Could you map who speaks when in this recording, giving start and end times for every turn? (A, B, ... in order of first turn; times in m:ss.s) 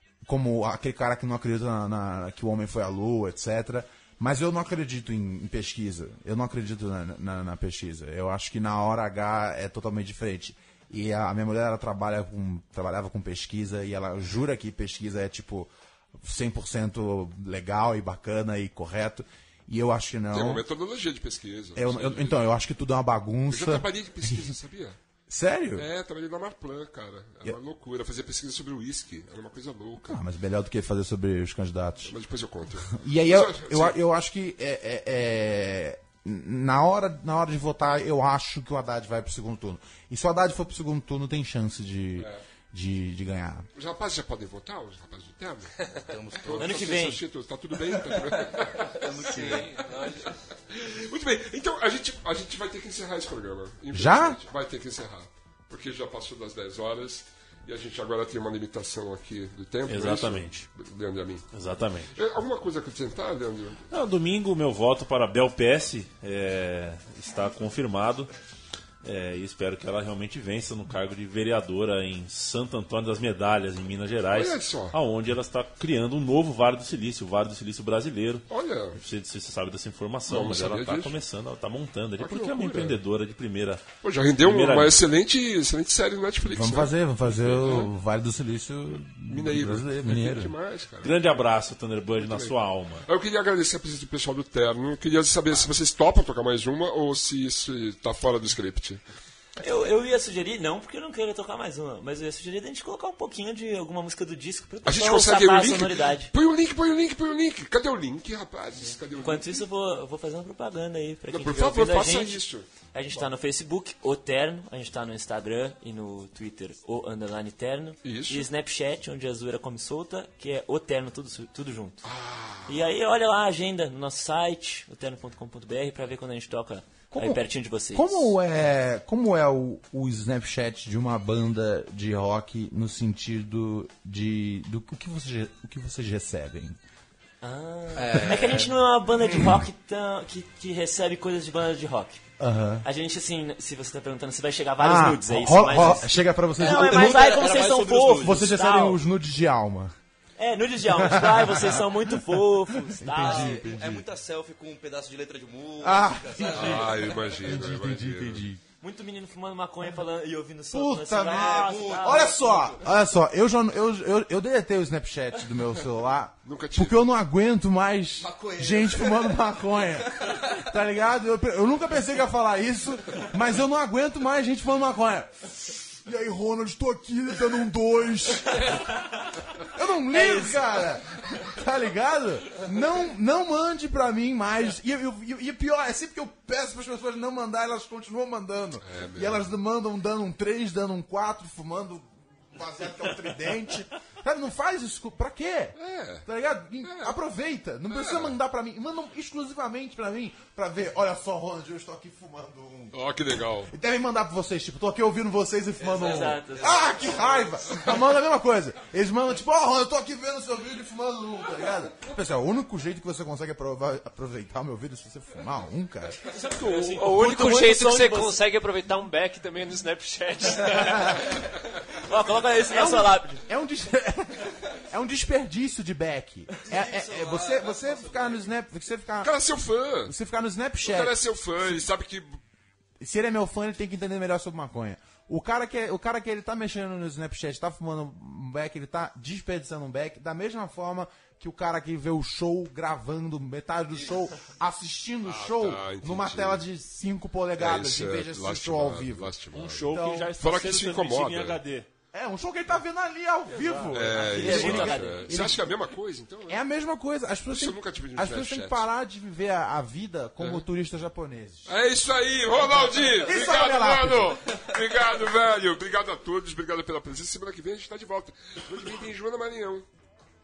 0:00.2-0:20.6 A
0:20.3-0:22.4 B
0:21.8-0:24.5 A
0:23.5-0:25.0 B
0:25.3-0:25.9 A
0:25.8-0:30.2 B
0:30.0-0:32.1 A
0:32.0-0:34.0 B
0:32.9-0:43.6 A
0:43.8-0:45.8 B
0:46.0-0:46.8 C
0:46.4-1:01.4 B
0:46.6-0:47.2 D
0:49.0-0:49.8 C
0:49.1-0:50.3 E
0:53.9-0:54.4 A
0:59.9-1:00.7 F
1:01.5-1:02.1 F
1:02.1-1:03.9 B
1:03.9-1:08.3 F
1:09.0-1:23.8 F
1:14.3-1:14.9 B
1:18.5-1:19.0 B
1:20.3-1:21.2 B
1:22.2-1:23.0 B
1:24.0-1:27.9 B
1:24.4-1:25.0 F
1:26.5-1:30.5 A
1:29.2-1:31.4 B
1:31.0-1:33.0 F
1:32.2-1:32.5 B
1:33.0-1:39.0 B
1:39.6-1:46.3 D
1:44.8-1:49.6 B
1:49.2-1:52.4 D
1:51.3-1:53.3 B
1:52.9-2:02.0 D
1:58.0-1:58.5 B
2:02.0-2:02.9 B
2:02.7-2:08.3 D
2:07.1-2:16.8 A
2:17.4-2:22.2 D
2:17.9-2:19.6 C
2:22.4-2:22.8 A
2:22.8-2:29.0 D
2:24.8-2:29.9 A
2:26.6-2:28.5 C
2:30.4-2:33.7 D
2:30.8-2:34.1 A
2:33.2-2:37.1 C
2:35.8-2:38.6 A
2:36.5-2:38.4 B
2:38.8-2:42.4 D
2:40.7-2:58.8 A
2:41.2-2:42.8 C
2:46.4-2:47.0 B
2:48.2-2:49.3 C
2:59.6-3:23.0 A
3:00.1-3:00.6 D
3:08.8-3:09.5 B
3:15.8-3:16.2 B
3:16.8-3:17.2 B
3:17.9-3:18.3 B
3:22.9-3:23.7 B
3:23.6-3:38.0 A
3:25.8-3:27.5 C
3:26.0-3:27.1 D
3:36.2-3:41.4 E
3:37.1-3:38.4 D
3:42.0-3:43.4 D
3:42.7-3:49.3 A
3:46.8-3:48.3 C
3:49.2-3:50.1 B
3:50.0-3:51.9 A
3:50.8-3:52.4 B
3:53.0-4:10.3 A
4:05.2-4:06.6 B
4:07.6-4:11.6 B
4:09.5-4:11.9 F
4:12.1-4:15.8 A
4:13.5-4:14.5 F
4:13.9-4:16.6 B
4:14.2-4:15.4 D
4:16.5-4:21.7 A
4:17.5-4:18.8 B
4:20.4-4:20.6 B
4:21.7-4:29.8 B
4:22.6-4:24.4 A